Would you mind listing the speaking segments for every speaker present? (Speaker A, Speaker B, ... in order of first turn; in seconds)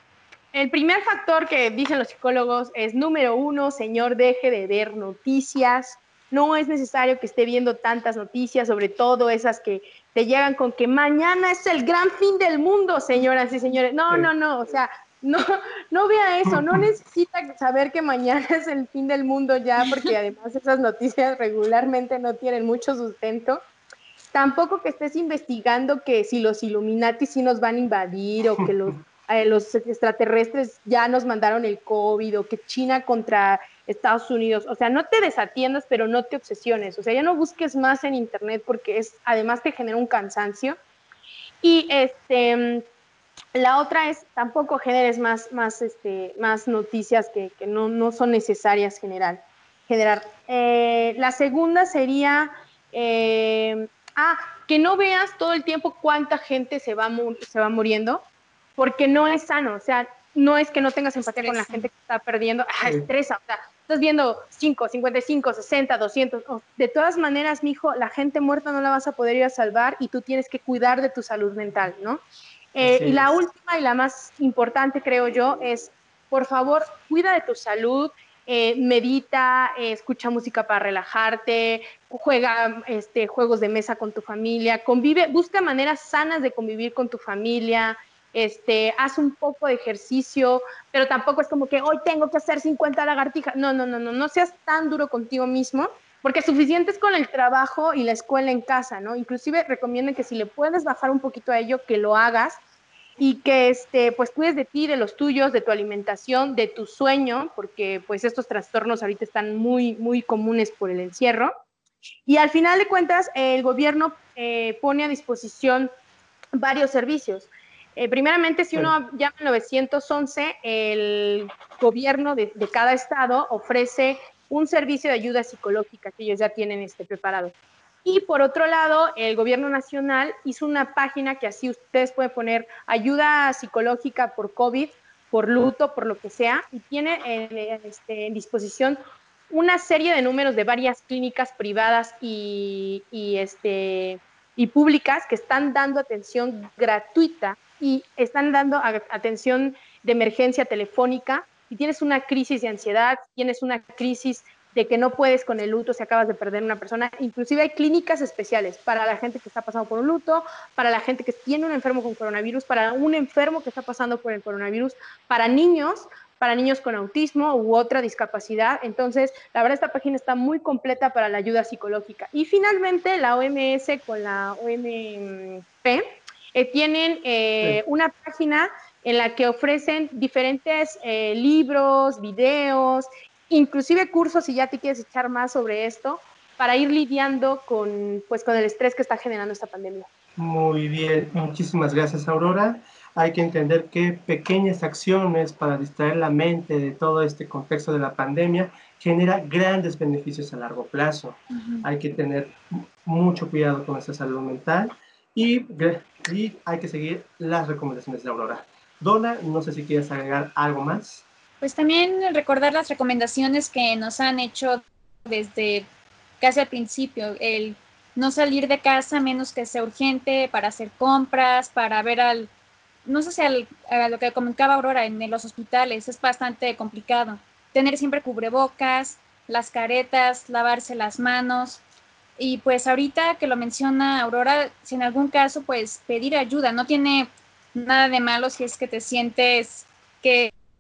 Speaker A: 0.5-23.6, 24.3-40.8, 41.6-42.8, 43.5-58.2, 58.8-72.2, 72.8-102.6, 103.2-111.5, 112.3-115.9, 116.6-127.5, 128.1-139.0, 139.5-176.0, 176.6-190.1
Speaker B: 16.5-16.8, 28.6-29.0, 62.8-63.1, 72.8-73.3, 190.4-211.2
Speaker C: 19.8-20.1, 61.4-61.9, 201.5-201.8, 211.6-215.9, 216.4-222.5, 223.1-231.8, 232.4-240.5